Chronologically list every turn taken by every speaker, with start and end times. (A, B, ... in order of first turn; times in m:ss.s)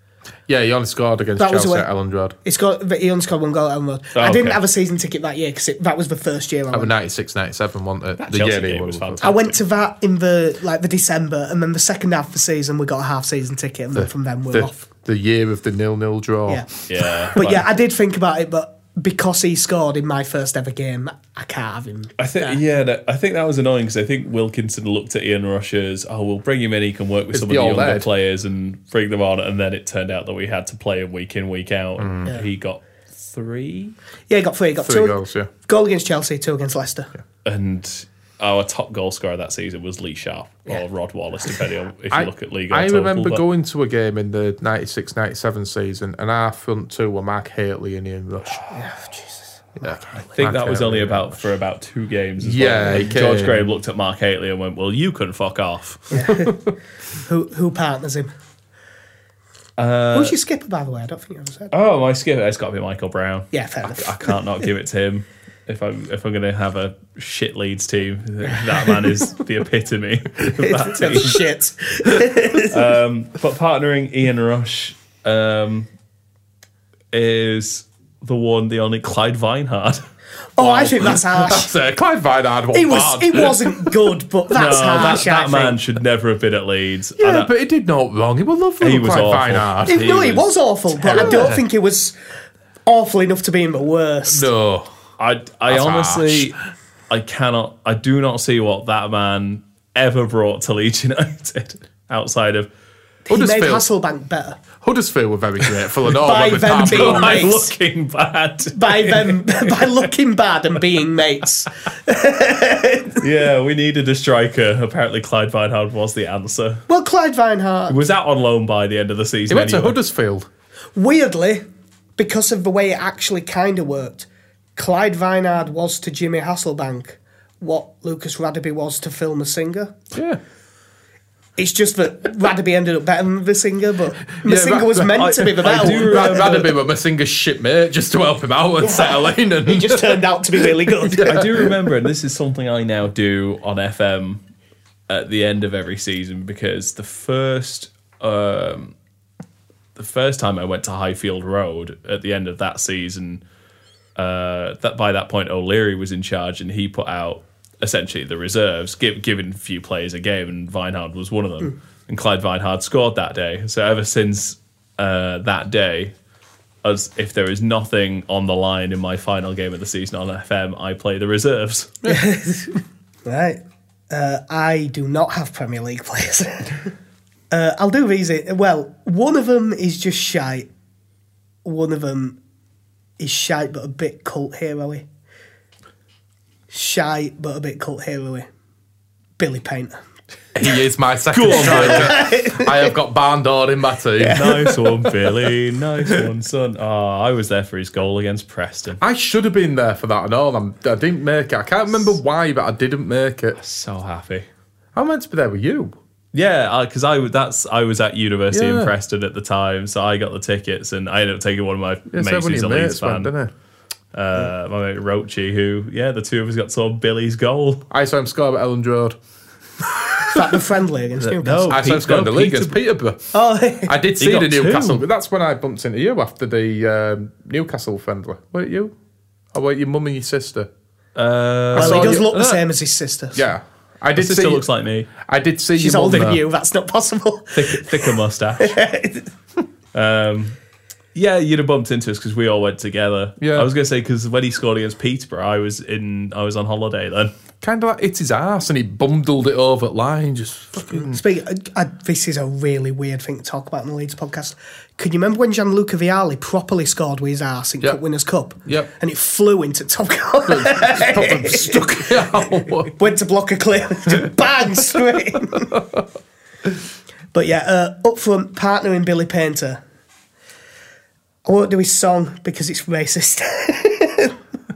0:00.5-0:02.4 A
0:01.4-0:01.9 B
0:02.4-0:06.9 B
0:04.2-0:04.6 C
0:06.7-0:09.3 A
0:08.2-0:09.6 C
0:09.2-0:14.9 B
0:14.0-0:16.7 A
0:16.9-0:17.6 C
0:17.3-0:22.6 B
0:22.2-0:34.0 C
0:27.3-0:28.1 A
0:32.0-0:32.3 A
0:34.3-0:37.1 B
0:34.8-0:35.5 A
0:37.4-0:43.4 C
0:42.1-0:48.6 A
0:48.7-0:50.2 B
0:49.8-0:51.5 A
0:50.3-0:56.3 C
0:52.4-0:53.7 A
0:56.1-0:56.6 B
0:56.3-0:56.7 A
0:57.2-0:58.3 B
0:59.8-1:00.4 C
1:00.1-1:01.7 B
1:01.7-1:11.4 C
1:03.5-1:04.4 B
1:10.6-1:12.9 B
1:12.6-1:15.9 C
1:17.1-1:20.0 C
1:20.6-1:21.7 B
1:20.6-1:24.0 A
1:22.7-1:25.8 B
1:24.5-1:27.5 C
1:27.2-1:30.0 A
1:28.8-1:31.4 C
1:29.9-1:32.2 B
1:31.1-1:31.6 A
1:32.9-1:34.5 B
1:34.3-1:34.9 A
1:35.2-1:36.6 C
1:35.7-1:36.5 A
1:37.1-1:42.7 C
1:43.3-1:44.6 B
1:43.3-1:43.9 A
1:44.8-1:47.5 A
1:46.2-1:47.7 B
1:46.6-1:50.0 C
1:48.7-1:53.2 B
1:53.2-1:56.8 C
1:56.9-1:58.0 B
1:57.9-2:00.0 C
1:59.5-2:00.5 A
2:01.0-2:01.6 B
2:02.2-2:10.0 B
2:10.1-2:10.4 A
2:11.6-2:16.6 B
2:14.4-2:21.7 A
2:15.2-2:16.8 C
2:18.8-2:21.6 B
2:21.2-2:24.4 C
2:25.1-2:29.0 C
2:30.0-2:33.4 C
2:34.2-2:46.1 C
2:46.8-2:52.0 C
2:52.1-2:56.9 B
2:57.5-3:00.7 B
3:01.6-3:02.4 B
3:03.2-3:05.1 B
3:06.7-3:08.5 B
3:09.4-3:10.0 B
3:10.6-3:14.5 A
3:11.3-3:12.2 C
3:11.5-3:12.9 B
3:14.2-3:15.3 B
3:14.3-3:19.0 C
3:19.0-3:23.6 A
3:23.6-3:24.5 C
3:25.0-3:26.0 A
3:26.3-3:33.3 C
3:28.5-3:28.9 A
3:32.1-3:33.5 A
3:34.1-3:37.8 C
3:37.9-3:39.2 A
3:39.8-3:40.4 A
3:40.3-3:41.8 B
3:41.2-3:42.8 C
3:41.7-3:43.3 A
3:43.3-3:44.0 B
3:43.9-3:48.9 A
3:44.2-3:45.0 C
3:49.5-3:50.7 A
3:51.2-3:52.6 C
3:51.7-3:52.4 A
3:51.8-3:53.4 B
3:53.4-3:54.6 A
3:54.2-3:55.1 C
3:55.2-3:56.4 A
3:55.8-3:59.3 B
3:57.6-3:58.8 C
3:59.9-4:00.6 C
4:01.1-4:07.3 C
4:03.4-4:03.7 A
4:07.6-4:11.2 A
4:10.9-4:25.8 B
4:18.6-4:18.9 A
4:20.5-4:22.9 A
4:25.7-4:26.0 A
4:27.3-4:29.8 B
4:31.4-4:34.4 B